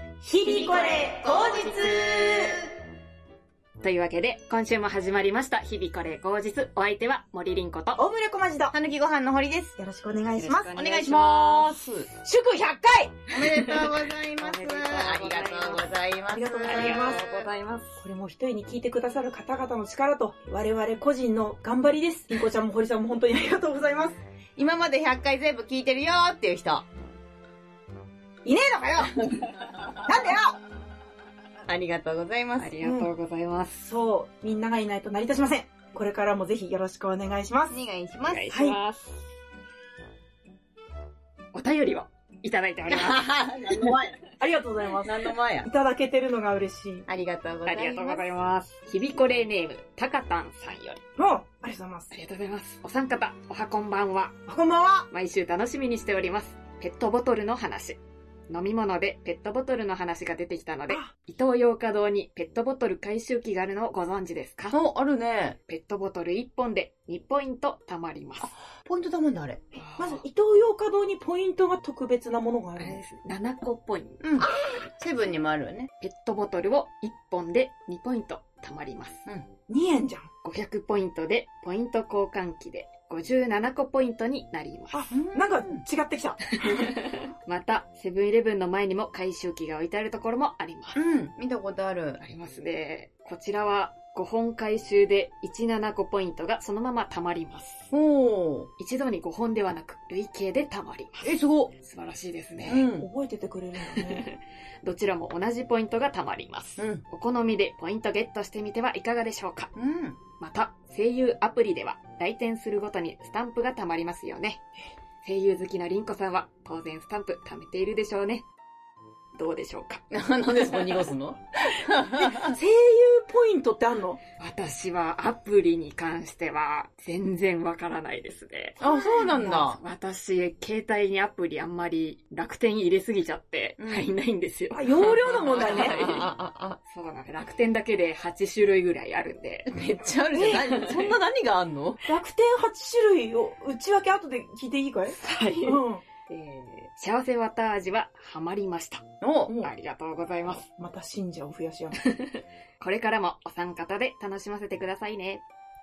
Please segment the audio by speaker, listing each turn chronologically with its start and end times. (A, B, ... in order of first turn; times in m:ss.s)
0:00.2-0:02.6 A
0:00.4-0:02.6 B
0:03.8-0:08.0 C
0:08.0-0:08.7 A
0:08.7-0:09.8 B
0:09.8-0:10.7 A
0:10.4-0:11.8 C
0:10.7-0:12.1 B
0:12.2-0:13.3 A
0:13.3-0:17.5 B
0:13.4-0:15.9 C
0:16.3-0:17.2 A
0:16.6-0:18.0 C
0:18.0-0:24.2 A
0:24.6-0:26.8 B
0:28.4-0:29.4 A
0:29.9-0:30.5 A
0:31.6-0:32.7 B
0:32.6-0:33.8 C
0:32.8-0:33.1 A
0:33.8-0:37.8 A
0:37.7-0:38.5 B
0:38.2-0:39.2 C
0:38.5-0:38.8 A
0:41.5-0:43.9 C
0:42.9-0:44.2 B
0:44.4-0:47.1 A
0:45.0-0:45.7 B
0:47.1-0:48.2 B
0:47.6-0:51.0 C
0:51.2-0:52.1 A
0:52.1-0:54.4 C
0:54.5-0:55.1 A
0:55.1-0:58.0 C
0:58.5-1:04.8 C
1:04.7-1:05.6 B
1:05.7-1:08.6 C
1:08.8-1:09.6 B
1:09.7-1:10.2 C
1:10.0-1:13.0 A
1:12.8-1:14.9 C
1:14.2-1:15.9 B
1:16.0-1:19.3 C
1:19.7-1:20.3 A
1:20.4-1:25.0 C
1:24.9-1:26.9 A
1:25.1-1:25.8 B
1:26.6-1:31.0 C
1:30.9-1:32.2 B
1:32.2-1:37.9 C
1:37.9-1:38.7 B
1:38.8-1:42.9 C
1:41.2-1:41.7 B
1:42.6-1:43.1 B
1:43.0-1:44.2 A
1:43.8-1:49.7 C
1:49.8-1:50.2 B
1:50.4-1:54.6 C
1:55.2-1:58.4 C
1:59.4-2:00.0 C
2:00.1-2:02.6 B
2:00.6-2:01.0 C
2:02.3-2:04.2 A
2:04.4-2:16.3 C
2:08.8-2:09.8 B
2:13.8-2:14.1 B
2:14.7-2:16.1 A
2:15.0-2:16.8 B
2:16.9-2:19.7 C
2:19.7-2:22.0 B
2:20.4-2:21.0 C
2:20.6-2:21.0 A
2:22.0-2:26.0 A
2:25.1-2:29.1 C
2:29.2-2:29.5 B
2:29.6-2:30.7 C
2:30.8-2:32.0 A
2:32.0-2:35.4 C